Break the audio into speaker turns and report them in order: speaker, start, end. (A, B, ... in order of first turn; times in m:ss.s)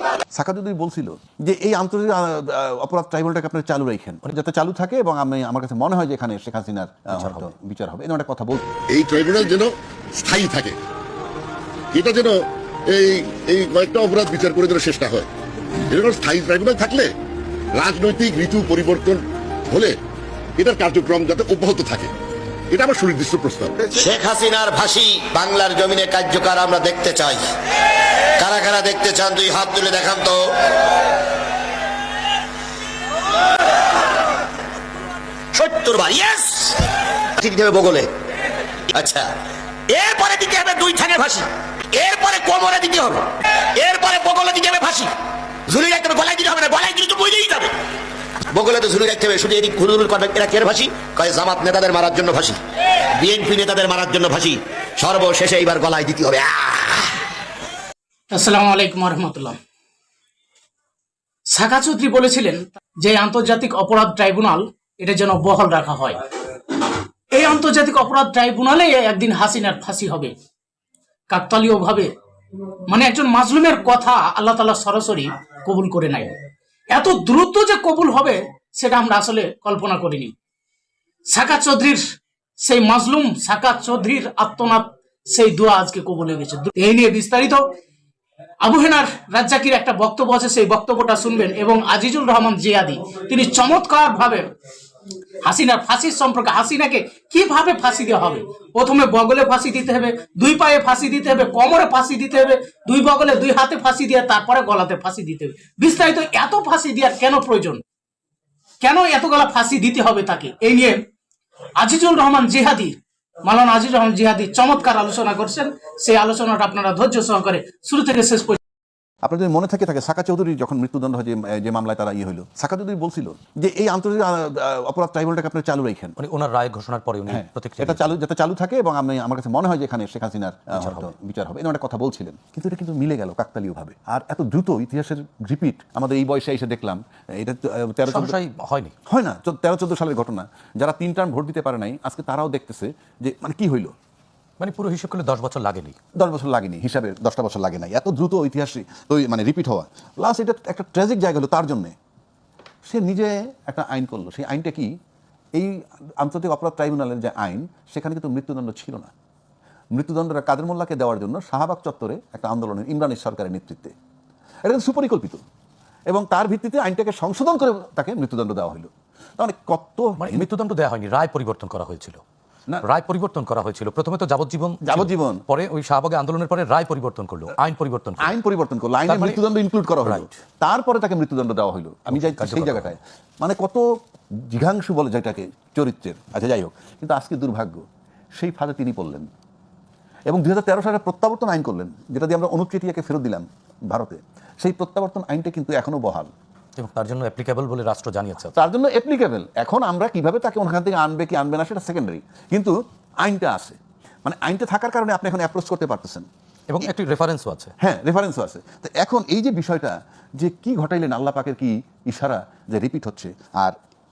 0:00.3-0:08.6 A
0:07.1-0:07.5 B
0:08.9-0:10.8 C
0:11.9-0:15.3 C
0:15.9-0:17.1 C
0:17.7-0:20.0 C
0:20.6-0:22.1 C
0:22.7-0:24.0 C
0:24.0-0:27.4 D
0:28.4-0:30.4 D
0:35.5-0:36.8 D
0:37.4-0:38.1 D
0:38.9-0:39.3 D
0:39.9-0:43.2 D
0:43.8-0:45.1 D
0:45.7-0:47.7 D
0:48.5-0:52.6 D
0:53.2-0:57.1 D
0:58.3-0:59.6 E
1:01.5-1:06.2 E
1:07.3-1:10.3 E
1:11.3-1:12.1 E
1:12.9-1:16.3 E
1:16.9-1:20.3 E
1:21.3-1:22.0 E
1:22.6-1:27.6 E
1:28.6-1:34.5 E
1:35.4-1:47.8 E
1:48.8-1:51.0 E
1:51.8-1:58.6 E
1:59.2-2:06.2 A
2:06.2-2:08.1 B
2:07.3-2:18.4 A
2:10.7-2:11.1 B
2:18.1-2:18.9 B
2:19.1-2:23.9 A
2:24.6-2:26.0 B
2:26.2-2:31.9 A
2:32.8-2:34.9 A
2:35.5-2:39.1 A
2:39.9-2:43.9 A
2:44.6-2:45.4 A
2:46.1-2:50.5 A
2:50.2-2:52.2 B
2:52.8-2:58.3 B
2:54.8-2:55.4 A
2:58.2-3:03.8 A
2:59.0-2:59.4 B
3:00.0-3:00.3 B
3:02.1-3:03.0 B
3:04.5-3:07.8 A
3:08.4-3:09.3 A
3:10.3-3:16.3 A
3:16.8-3:18.5 B
3:18.5-3:26.2 A
3:26.7-3:27.7 B
3:27.8-3:33.8 A